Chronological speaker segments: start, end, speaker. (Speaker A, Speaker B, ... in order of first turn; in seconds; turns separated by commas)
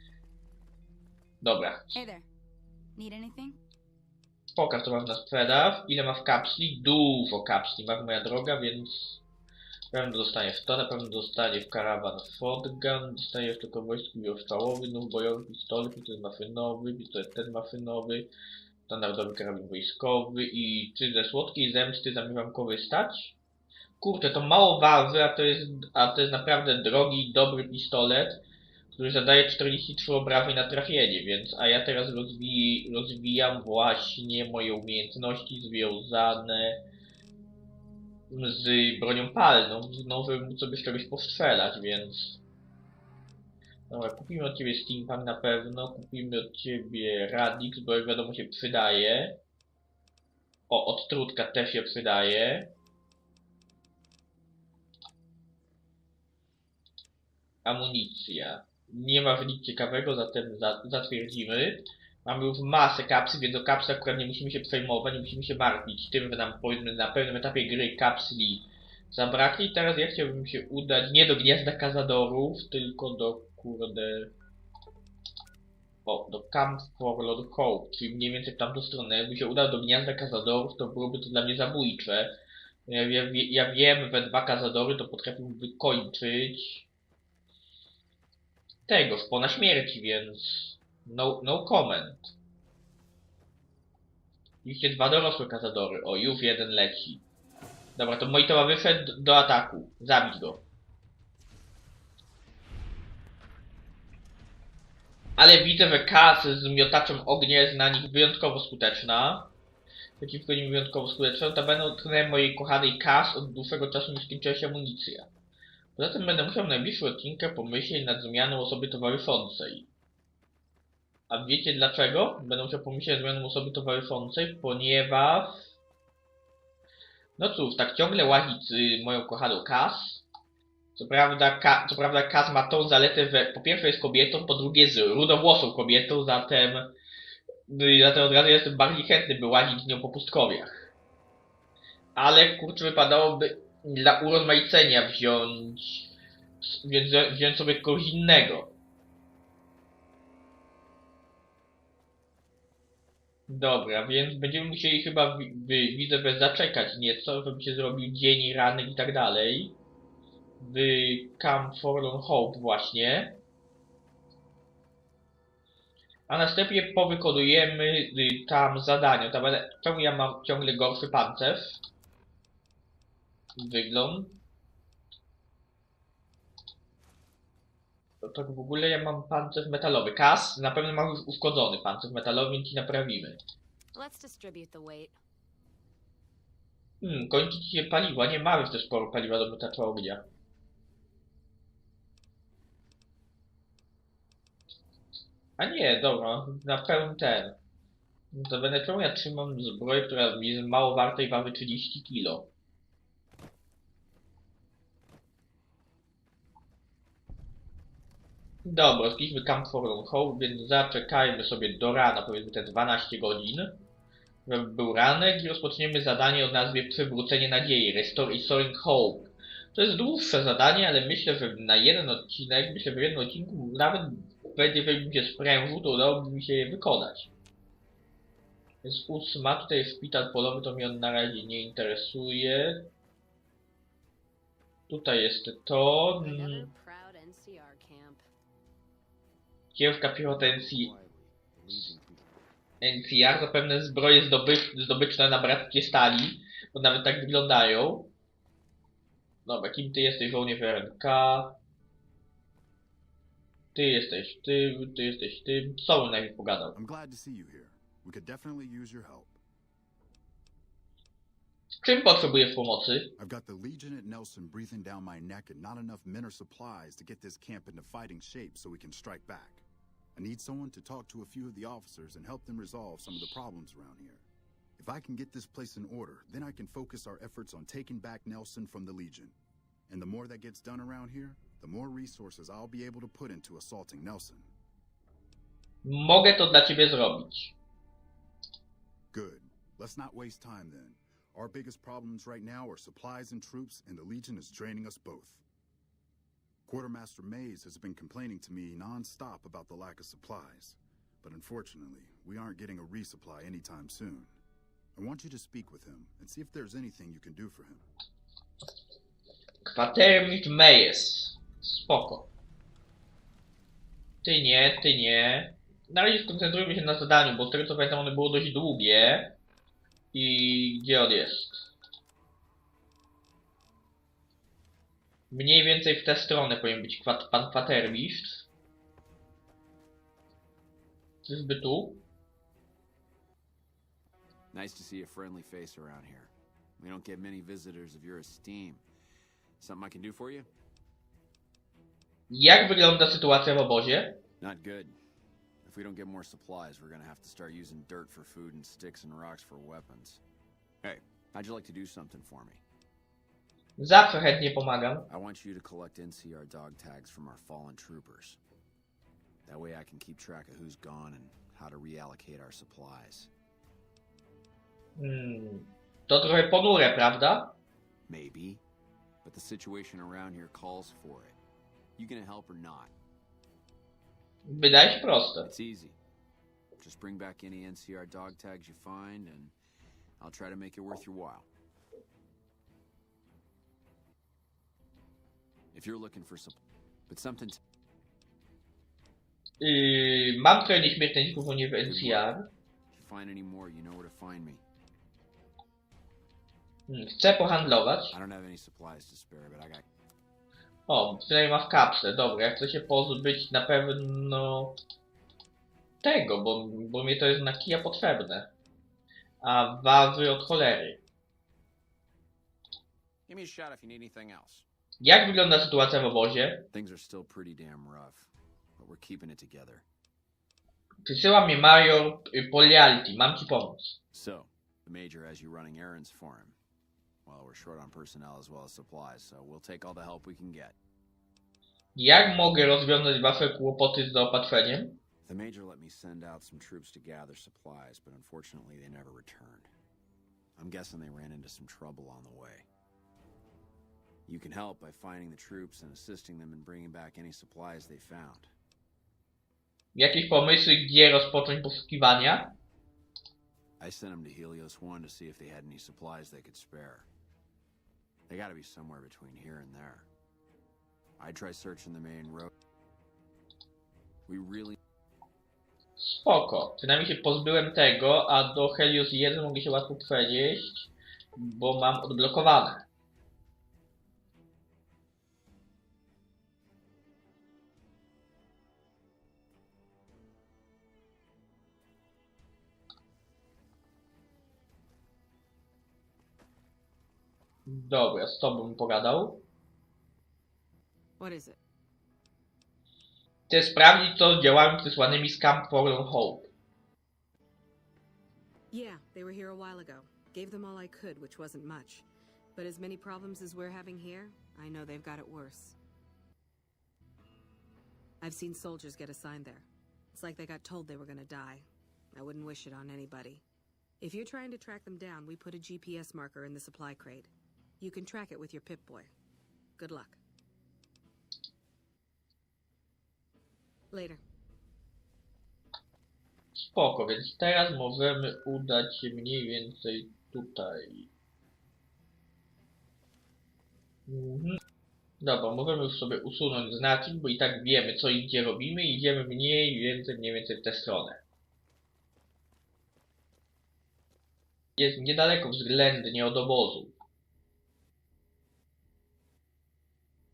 Speaker A: 1.4-2.0, Speaker B: 1.9-2.2, Speaker B: 3.0-3.6, Speaker A: 4.5-9.2, Speaker A: 9.9-18.3, Speaker A: 18.9-23.4, Speaker A: 24.0-36.8, Speaker A: 38.3-42.4, Speaker A: 43.9-49.4, Speaker A: 50.7-52.7, Speaker A: 57.6-74.3, Speaker A: 76.0-82.3, Speaker A: 82.9-86.9, Speaker A: 88.9-92.3, Speaker A: 94.6-97.2, Speaker A: 98.0-100.6, Speaker A: 105.4-109.5, Speaker A: 110.2-115.3, Speaker A: 116.0-119.9, Speaker A: 121.3-125.7, Speaker A: 127.4-130.2, Speaker A: 130.9-136.9, Speaker A: 137.7-140.7, Speaker A: 142.2-146.1, Speaker A: 146.6-148.7, Speaker A: 153.5-159.8, Speaker A: 160.6-163.4, Speaker A: 166.3-171.8, Speaker A: 173.6-174.4, Speaker A: 178.2-183.4, Speaker B: 183.9-185.2, Speaker A: 187.0-190.2, Speaker A: 195.6-197.6, Speaker A: 198.3-202.5, Speaker A: 208.6-213.8, Speaker A: 214.4-227.3, Speaker A: 228.8-232.9, Speaker A: 234.9-236.7, Speaker B: 236.2-238.2, Speaker A: 239.7-240.9, Speaker C: 240.3-242.3, Speaker A: 242.8-248.1, Speaker A: 249.4-251.6, Speaker A: 253.7-256.8, Speaker D: 256.7-259.4, Speaker A: 261.8-263.1, Speaker D: 263.2-274.2, Speaker D: 274.8-279.4, Speaker D: 279.9-284.5, Speaker A: 285.8-287.5, Speaker D: 289.1-295.4, Speaker D: 296.7-304.4, Speaker D: 304.9-307.9, Speaker A: 309.6-312.3, Speaker A: 314.2-319.4, Speaker A: 320.1-321.7, Speaker A: 325.3-328.5, Speaker A: 331.2-332.0, Speaker C: 334.5-338.8, Speaker C: 339.6-340.5, Speaker A: 342.3-344.2, Speaker C: 344.4-344.9, Speaker C: 345.6-350.2, Speaker C: 350.8-352.6, Speaker A: 353.8-355.1, Speaker C: 355.1-358.4, Speaker C: 359.4-363.3, Speaker A: 365.0-367.6, Speaker C: 368.1-368.6, Speaker C: 369.2-371.4, Speaker C: 372.0-372.9, Speaker A: 374.4-375.5, Speaker C: 375.4-376.0, Speaker C: 376.8-379.5, Speaker C: 380.2-381.5, Speaker C: 385.7-387.6, Speaker A: 389.6-392.4, Speaker C: 391.8-392.3, Speaker C: 392.9-394.6, Speaker A: 396.9-398.1, Speaker C: 398.1-399.9, Speaker A: 400.9-404.8, Speaker A: 406.0-408.5, Speaker A: 409.4-411.0, Speaker C: 413.3-414.6, Speaker A: 415.0-416.6, Speaker C: 416.7-419.8, Speaker A: 421.0-424.0, Speaker C: 424.1-426.6, Speaker C: 427.2-430.8, Speaker A: 431.9-435.0, Speaker C: 435.2-439.7, Speaker C: 440.6-442.7, Speaker C: 444.3-448.5, Speaker A: 449.9-452.5, Speaker C: 453.8-457.1, Speaker C: 458.3-460.1, Speaker C: 461.2-462.5, Speaker C: 464.3-464.8, Speaker A: 466.0-472.9, Speaker A: 487.6-489.4, Speaker E: 491.2-491.6, Speaker A: 493.5-496.5, Speaker E: 498.7-505.8, Speaker E: 508.2-513.4, Speaker E: 514.0-519.1, Speaker E: 519.8-520.2, Speaker E: 523.9-524.2, Speaker A: 526.5-531.1, Speaker A: 534.1-534.6, Speaker A: 535.2-541.2, Speaker A: 544.8-546.9